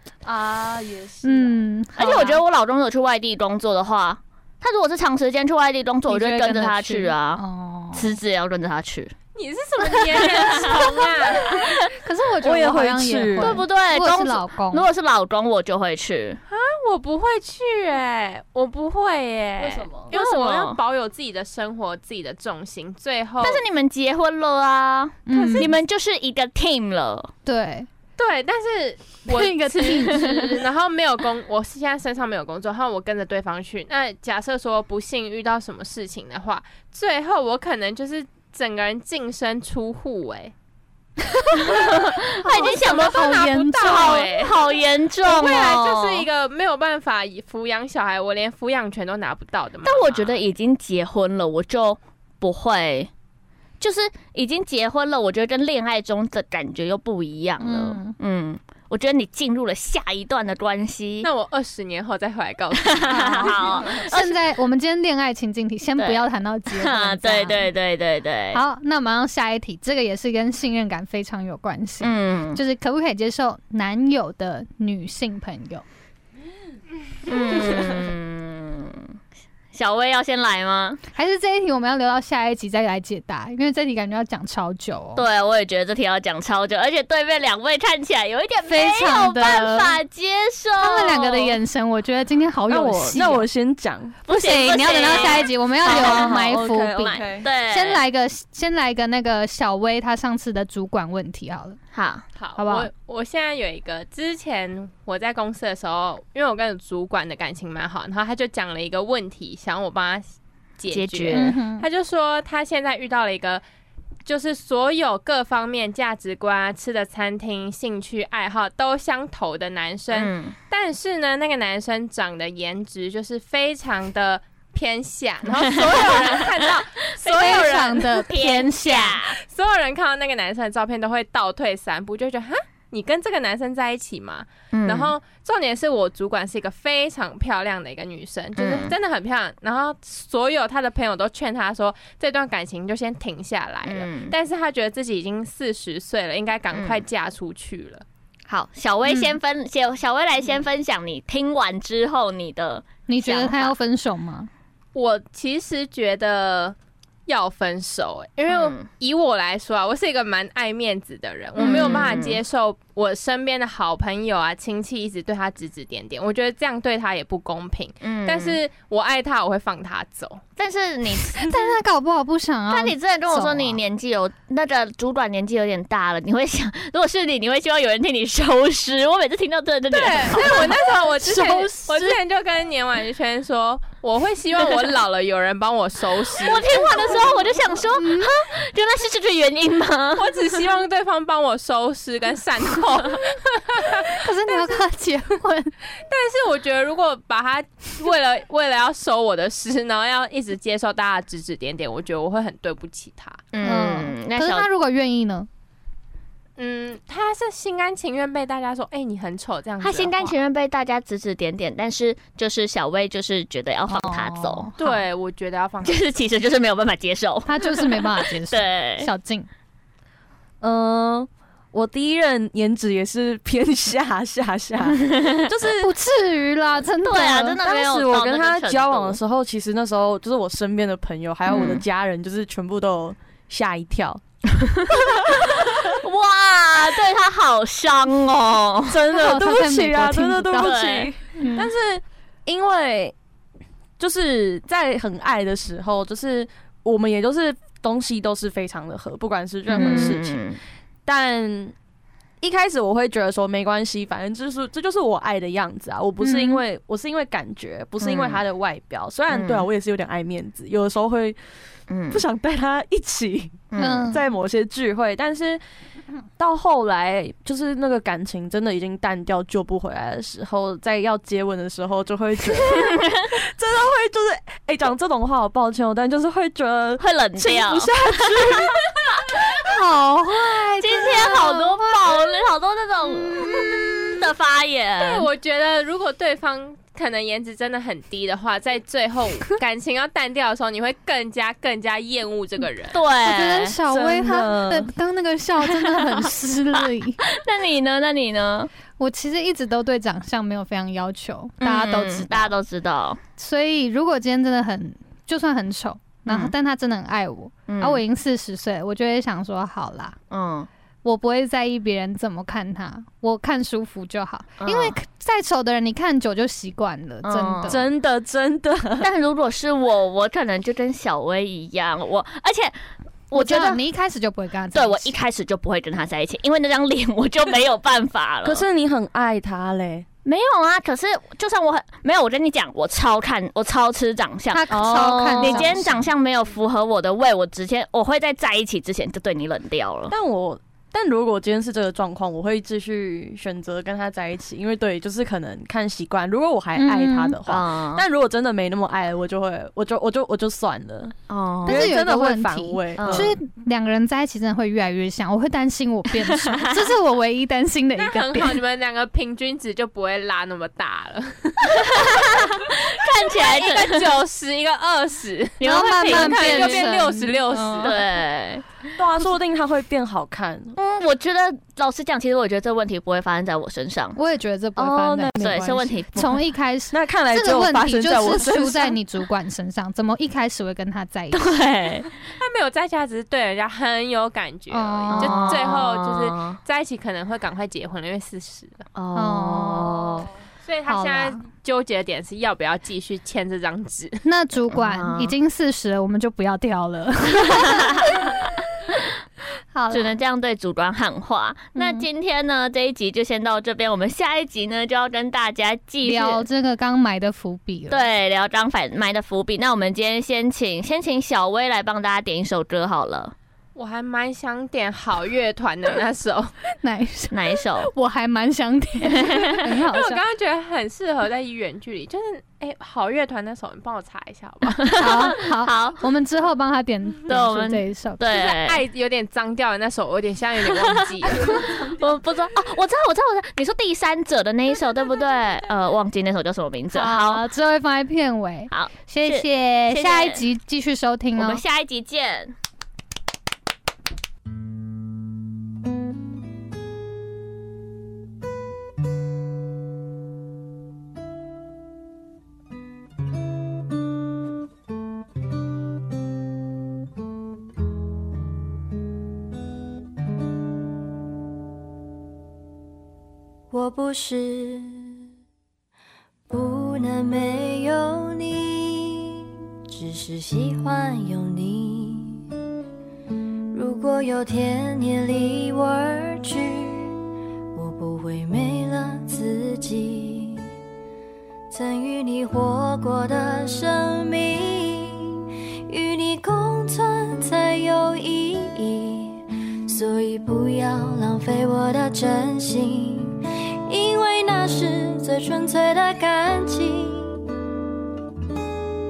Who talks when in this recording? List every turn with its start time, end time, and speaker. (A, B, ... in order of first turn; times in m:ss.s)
0:00.2-0:01.6 A
0:01.2-0:02.4 B
0:02.0-0:07.4 C
0:06.1-0:08.1 B
0:07.9-0:09.1 C
0:09.4-0:11.6 D
0:09.8-0:11.9 C
0:12.0-0:14.9 B
0:12.4-0:13.6 A
0:13.4-0:16.4 C
0:16.5-0:23.6 D
0:19.6-0:20.1 A
0:20.1-0:20.8 C
0:23.4-0:27.3 C
0:25.3-0:25.7 B
0:25.3-0:25.8 D
0:27.5-0:27.9 B
0:28.2-0:40.5 D
0:29.3-0:30.6 B
0:41.6-0:44.2 B
0:41.7-0:46.3 C
0:42.5-0:50.4 D
0:49.8-0:53.1 C
0:53.8-1:01.3 C
0:57.6-0:58.2 B
1:01.2-1:04.0 D
1:02.8-1:04.4 C
1:03.1-1:07.7 B
1:06.0-1:08.6 C
1:08.5-1:15.8 B
1:12.0-1:12.6 C
1:17.2-1:19.2 C
1:19.7-1:21.0 C
1:21.2-1:25.2 B
1:25.2-1:31.6 C
1:28.6-1:30.0 B
1:30.8-1:33.5 B
1:32.7-1:34.2 A
1:34.3-1:38.0 C
1:34.3-1:41.8 B
1:35.8-1:37.5 A
1:41.9-1:42.2 C
1:42.4-1:53.6 D
1:42.6-1:42.9 B
1:50.9-1:51.6 C
1:51.3-1:51.9 B
1:54.3-2:28.1 D
2:00.1-2:00.6 C
2:05.5-2:06.6 C
2:07.2-2:09.4 C
2:07.3-2:09.2 B
2:14.7-2:15.1 C
2:18.6-2:19.0 C
2:23.9-2:24.3 C
2:26.7-2:27.1 C
2:28.5-2:33.8 C
2:29.1-2:29.4 B
2:33.1-2:34.5 B
2:35.0-2:36.8 D
2:37.3-2:50.4 D
2:38.5-2:38.8 C
2:41.6-2:42.4 C
2:48.0-2:48.6 C
2:50.6-2:51.7 C
2:51.4-2:53.8 B
2:52.7-3:00.8 C
2:59.9-3:07.4 D
3:01.2-3:02.2 B
3:06.4-3:10.3 C
3:07.9-3:08.3 B
3:10.2-3:14.8 D
3:14.0-3:15.7 B
3:16.1-3:23.4 D
3:23.5-3:24.7 C
3:23.6-3:25.5 B
3:26.6-3:30.4 D
3:29.8-3:34.7 C
3:33.9-3:35.0 B
3:34.8-3:36.1 D
3:35.8-3:39.1 C
3:37.5-3:39.5 B
3:40.6-3:45.9 A
3:45.0-3:45.5 C
3:45.8-3:47.6 B
3:47.0-3:49.2 C
3:47.6-3:54.2 A
3:51.5-3:51.8 C
3:54.6-3:59.0 C
3:54.9-3:55.9 A
3:58.9-4:03.2 A
3:59.1-4:00.8 B
4:00.6-4:01.1 C
4:01.4-4:01.7 B
4:04.0-4:10.4 A
4:09.7-4:10.6 C
4:09.8-4:10.2 B
4:11.1-4:11.8 A
4:12.4-4:21.4 A
4:16.2-4:16.6 B
4:18.0-4:18.4 C
4:19.3-4:19.7 C
4:21.9-4:22.2 C
4:22.1-4:25.6 A
4:23.7-4:24.1 C
4:23.8-4:24.2 B
4:26.4-4:39.2 A
4:32.7-4:33.3 C
4:37.0-4:38.7 C
4:39.6-4:42.1 B
4:40.8-4:45.3 C
4:45.0-4:53.0 D
4:52.9-4:53.8 C
4:53.2-4:57.2 B
4:53.9-4:54.9 A
4:55.6-4:56.2 C
4:57.3-4:58.7 C
4:59.0-5:02.6 B
5:01.6-5:03.2 C
5:03.4-5:10.2 B
5:06.3-5:06.5 C
5:07.7-5:08.0 C
5:10.3-5:10.7 C
5:11.0-5:17.8 B
5:14.6-5:15.0 C
5:17.2-5:17.8 C
5:17.7-5:19.1 A
5:19.0-5:22.8 C
5:23.3-5:23.8 C
5:23.3-5:25.2 B
5:24.7-5:28.6 C
5:28.4-5:30.1 A
5:30.2-5:40.1 C
5:34.5-5:36.1 B
5:34.7-5:35.9 A
5:40.1-5:51.2 A
5:46.8-5:47.4 B
5:47.5-5:48.0 C
5:51.3-5:51.9 C
5:51.6-5:58.6 B
5:51.7-5:53.3 A
5:53.0-5:53.3 C
5:56.2-5:56.9 C
5:58.0-6:08.0 D
6:01.7-6:04.1 C
6:05.6-6:06.9 C
6:05.6-6:07.9 B
6:07.8-6:08.7 C
6:09.0-6:10.8 A
6:10.8-6:14.2 C
6:14.2-6:21.5 B
6:14.8-6:19.0 A
6:15.4-6:16.4 C
6:21.3-6:22.1 C
6:22.4-6:28.9 D
6:24.7-6:25.6 B
6:25.1-6:26.6 C
6:29.0-6:30.3 C
6:29.2-6:30.3 B
6:30.6-6:34.2 D
6:30.9-6:31.4 B
6:34.2-6:38.3 B
6:34.7-6:35.4 C
6:37.3-6:38.5 C
6:39.7-6:40.2 B
6:39.9-6:46.4 C
6:41.8-6:42.1 B
6:46.0-6:48.1 B
6:47.9-6:53.4 C
6:53.8-6:56.5 D
6:56.8-7:00.2 B
6:57.3-6:57.9 C
6:59.1-6:59.7 C
6:59.9-7:04.9 D
7:04.7-7:06.0 C
7:05.0-7:08.4 B
7:07.3-7:08.8 C
7:08.3-7:11.8 D
7:10.7-7:17.4 C
7:16.9-7:21.6 B
7:18.7-7:20.4 C
7:21.4-7:22.5 C
7:43.7-7:45.1 E
7:46.5-7:49.3 E
7:49.9-7:52.4 E
7:53.7-7:57.2 E
7:57.7-8:00.6 E
8:01.7-8:17.4 E